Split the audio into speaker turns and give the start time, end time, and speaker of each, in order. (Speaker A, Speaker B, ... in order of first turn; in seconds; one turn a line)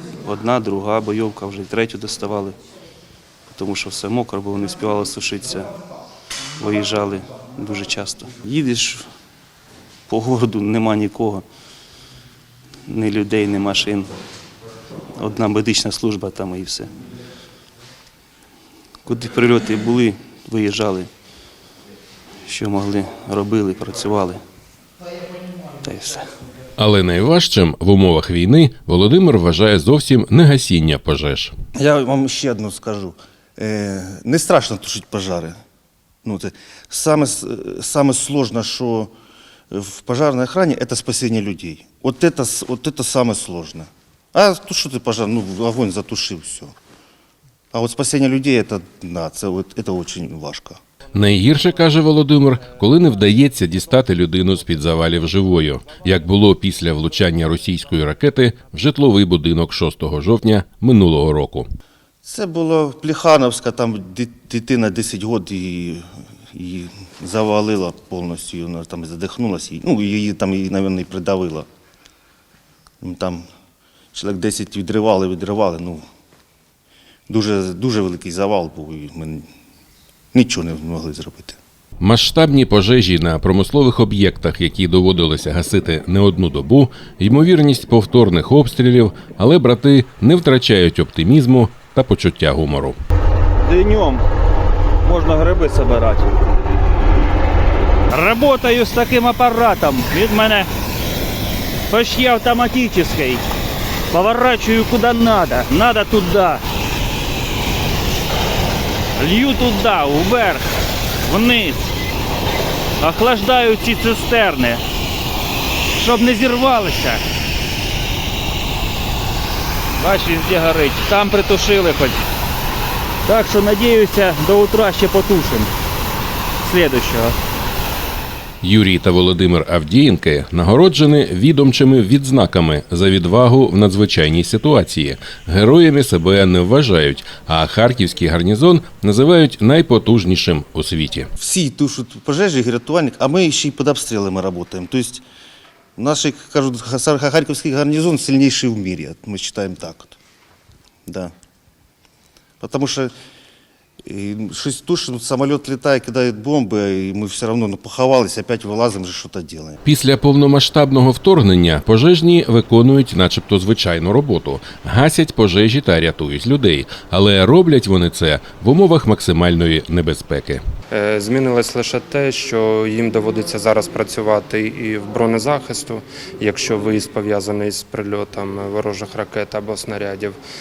Speaker A: 0.2-2.6
Speaker A: 3.5-5.7
Speaker A: 6.6-9.1
Speaker A: 10.1-11.4
Speaker A: 12.9-14.1
Speaker A: 15.2-16.9
Speaker A: 19.0-21.1
Speaker A: 22.5-24.4
Speaker A: 25.8-26.3
Speaker B: 26.8-31.5
Speaker C: 31.8-35.6
Speaker C: 36.2-39.1
Speaker C: 39.7-46.7
Speaker C: 47.7-50.8
Speaker B: 51.1-61.6
Speaker C: 62.2-71.7
Speaker C: 73.0-73.4
Speaker C: 74.1-76.0
Speaker C: 77.3-79.5
Speaker C: 80.3-81.6
Speaker B: 82.0-93.0
Speaker D: 93.6-94.2
Speaker D: 95.0-96.3
Speaker D: 98.1-100.7
Speaker D: 101.9-103.4
Speaker D: 104.1-106.6
Speaker D: 109.2-110.7
Speaker D: 111.2-111.9
Speaker D: 113.0-114.8
Speaker D: 116.0-117.2
Speaker D: 120.0-122.3
Speaker D: 123.2-125.7
Speaker D: 126.6-127.3
Speaker B: 128.6-141.3
Speaker C: 141.4-145.2
Speaker C: 146.0-150.2
Speaker C: 151.1-151.3
Speaker C: 152.6-153.1
Speaker C: 154.0-159.8
Speaker B: 159.8-170.6
Speaker E: 170.9-180.4